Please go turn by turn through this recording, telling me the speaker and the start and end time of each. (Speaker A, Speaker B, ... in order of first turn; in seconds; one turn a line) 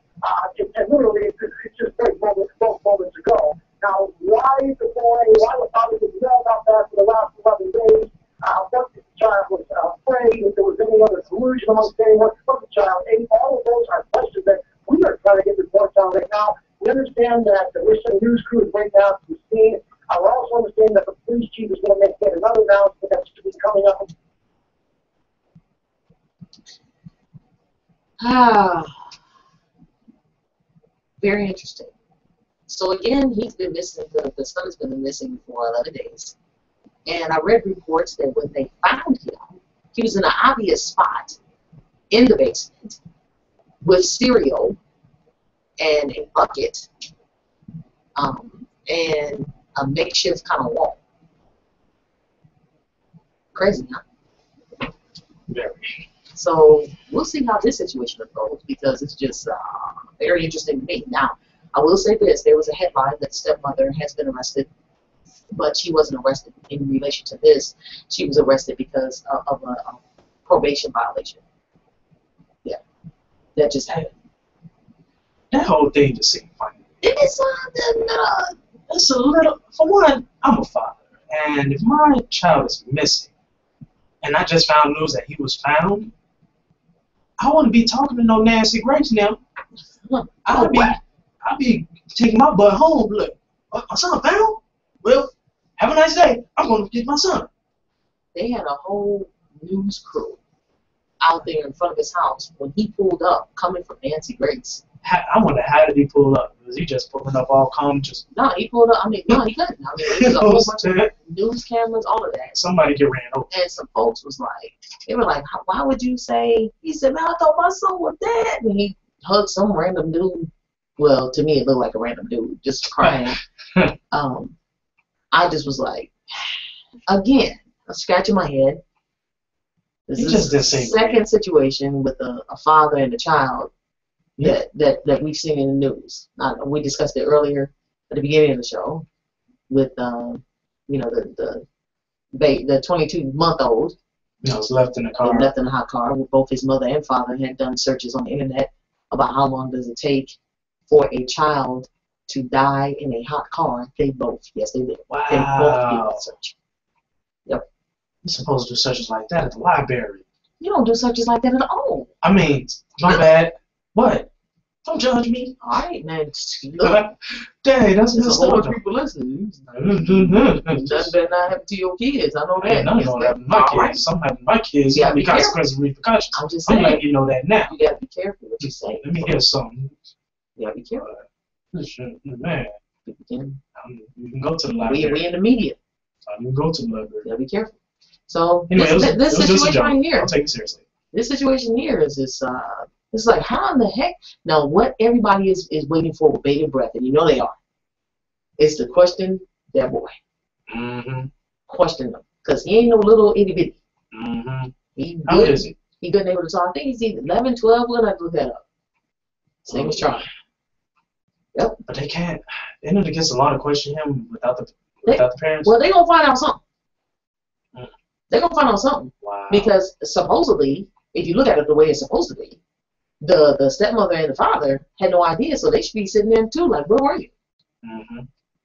Speaker A: 0.4-24.0
Speaker B: 28.2-29.0
Speaker B: 31.2-31.9
Speaker B: 32.7-36.3
Speaker B: 37.0-41.4
Speaker B: 42.1-43.0
Speaker B: 43.8-44.8
Speaker B: 45.8-46.9
Speaker B: 48.1-51.0
Speaker B: 53.5-54.0
Speaker C: 55.5-56.0
Speaker B: 56.3-64.7
Speaker B: 65.5-71.4
Speaker B: 73.5-74.1
Speaker C: 75.5-76.8
Speaker B: 77.0-78.5
Speaker C: 78.9-83.3
Speaker C: 84.2-86.1
Speaker C: 87.4-89.4
Speaker B: 90.0-91.0
Speaker C: 90.4-97.5
Speaker B: 98.3-100.4
Speaker B: 101.2-104.8
Speaker C: 105.0-108.3
Speaker B: 108.3-112.6
Speaker C: 110.1-111.1
Speaker C: 112.5-113.5
Speaker B: 113.5-123.4
Speaker C: 123.0-123.9
Speaker B: 124.1-124.5
Speaker B: 125.3-126.5
Speaker B: 127.1-128.8
Speaker B: 130.1-133.7
Speaker C: 130.2-131.2
Speaker B: 134.4-139.0
Speaker B: 139.7-141.6
Speaker B: 142.3-143.9
Speaker C: 144.4-145.5
Speaker B: 145.2-150.3
Speaker B: 150.9-156.5
Speaker C: 155.1-156.2
Speaker C: 158.2-160.2
Speaker B: 160.6-162.1
Speaker C: 162.2-164.3
Speaker C: 164.8-165.6
Speaker B: 165.6-167.0
Speaker C: 166.8-168.8
Speaker B: 168.1-174.0
Speaker C: 169.7-171.1
Speaker C: 172.6-177.7
Speaker B: 174.9-175.6
Speaker B: 176.3-177.0
Speaker B: 177.7-179.3
Speaker C: 178.6-179.9
Speaker B: 180.6-181.1
Speaker C: 180.9-182.7
Speaker B: 183.1-183.6
Speaker C: 183.8-185.2
Speaker B: 184.8-185.8
Speaker C: 186.2-187.2
Speaker B: 187.2-187.8
Speaker B: 188.3-190.3
Speaker C: 188.7-190.8
Speaker B: 191.1-197.5
Speaker B: 198.6-200.2
Speaker C: 200.7-201.3
Speaker B: 201.7-203.7
Speaker C: 204.1-204.7
Speaker B: 204.9-208.6
Speaker C: 205.3-205.7
Speaker B: 209.6-210.2
Speaker C: 209.7-210.3
Speaker B: 211.5-211.8
Speaker C: 211.9-215.7
Speaker B: 215.1-216.6
Speaker B: 218.3-222.6
Speaker C: 219.2-219.7
Speaker B: 223.2-227.3
Speaker C: 227.8-228.2